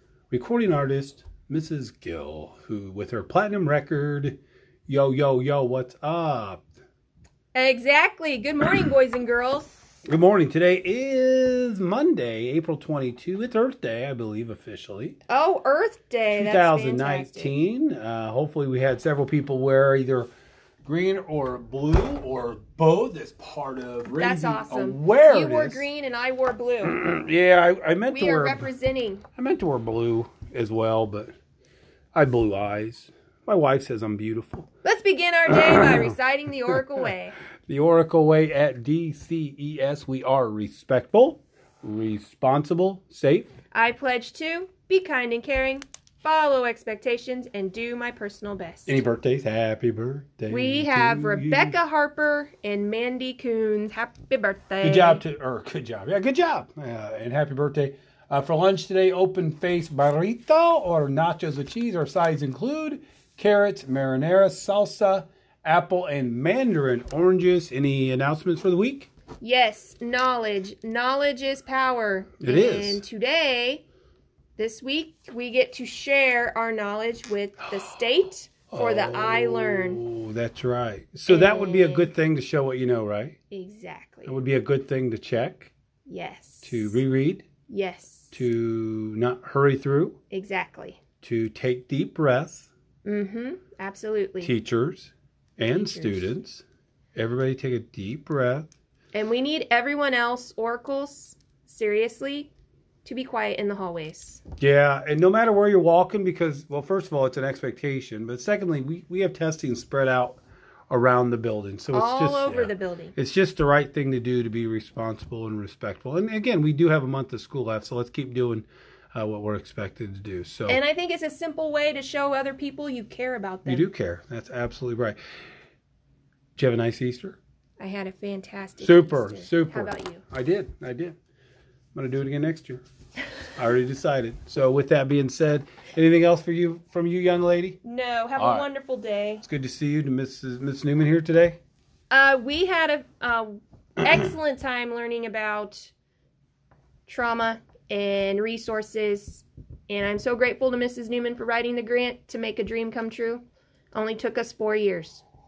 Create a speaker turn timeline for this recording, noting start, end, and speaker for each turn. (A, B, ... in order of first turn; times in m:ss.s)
0:00.3-0:06.6 A
0:07.5-0:09.7 B
0:10.0-0:15.2 A
0:15.3-0:17.5 B
0:16.3-0:20.3 A
0:20.8-0:25.9 A
0:24.2-0:27.0 B
0:26.8-0:28.7 A
0:28.1-0:29.2 B
0:29.4-0:31.3 A
0:32.1-0:34.7 A
0:34.8-0:37.4 B
0:37.7-0:43.5 A
0:43.7-0:49.0 B
0:48.8-0:51.8 A
0:50.5-0:55.2 B
0:54.8-1:09.1 A
1:09.4-1:13.8 B
1:12.4-1:13.0 A
1:14.6-1:20.0 B
1:18.7-1:23.4 A
1:21.3-1:22.1 B
1:23.5-1:24.4 B
1:24.2-1:25.7 A
1:26.1-1:27.0 B
1:26.6-1:27.4 A
1:27.7-1:28.4 B
1:28.3-1:30.2 A
1:30.3-1:31.0 B
1:31.2-1:32.7 A
1:33.0-1:34.5 B
1:34.4-1:36.6 A
1:35.7-1:36.3 B
1:37.1-1:38.7 A
1:39.1-1:42.5 B
1:43.0-1:44.4 B
1:44.6-2:00.8 A
1:51.9-1:53.1 B
2:00.7-2:03.8 B
2:03.6-2:05.2 A
2:06.6-2:07.4 A
2:07.8-2:10.2 B
2:08.8-2:11.1 A
2:11.9-2:12.8 A
2:13.6-2:17.8 A
2:17.8-2:19.4 B
2:18.4-2:18.7 A
2:19.4-2:21.6 A
2:22.1-2:25.9 B
2:27.1-2:35.2 B